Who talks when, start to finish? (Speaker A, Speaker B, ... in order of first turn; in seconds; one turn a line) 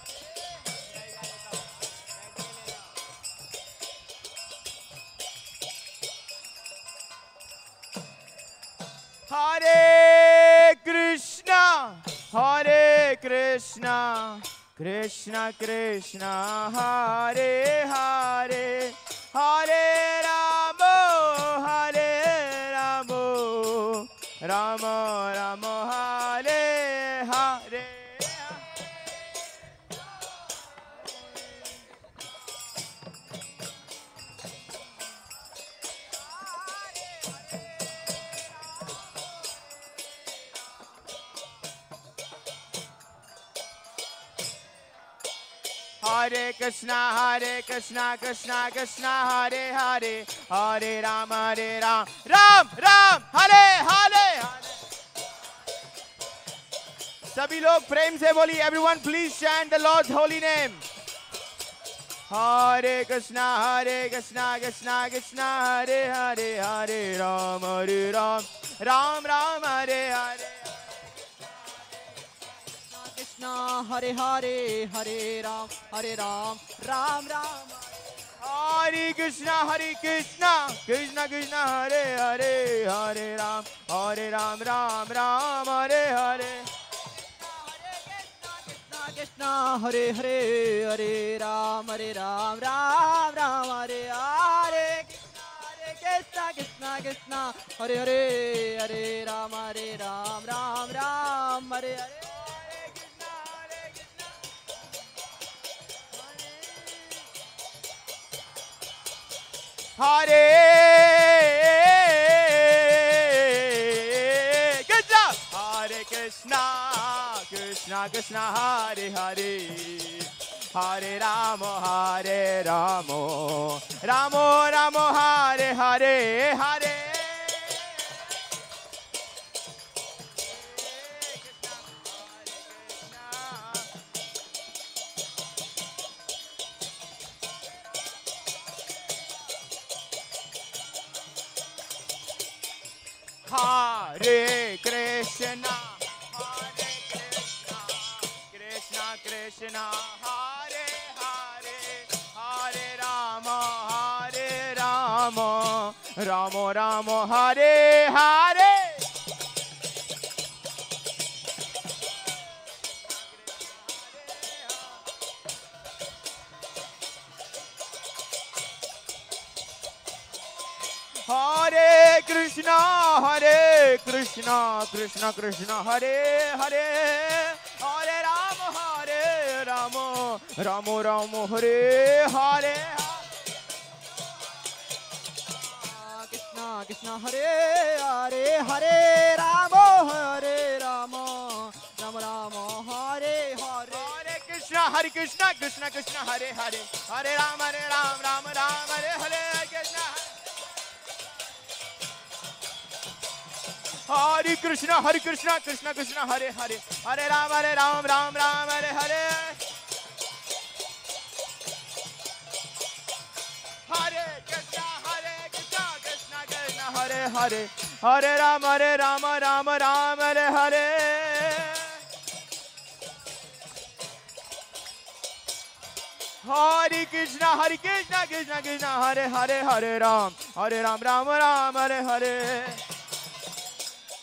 Speaker A: 9.3-28.7
Speaker A: 46.0-54.8
Speaker A: 57.3-60.9
Speaker A: 62.3-70.9
Speaker B: 72.9-78.1
Speaker A: 78.4-86.7
Speaker B: 87.4-102.4
Speaker A: 102.5-104.1
Speaker B: 106.4-106.8
Speaker A: 110.0-128.2
Speaker A: 130.5-133.9
Speaker A: 143.4-159.1
Speaker A: 164.3-164.6
Speaker A: 171.2-183.3
Speaker B: 185.6-194.1
Speaker A: 193.9-200.3
Speaker A: 204.1-209.6
Speaker A: 213.9-222.0
Speaker A: 226.4-232.8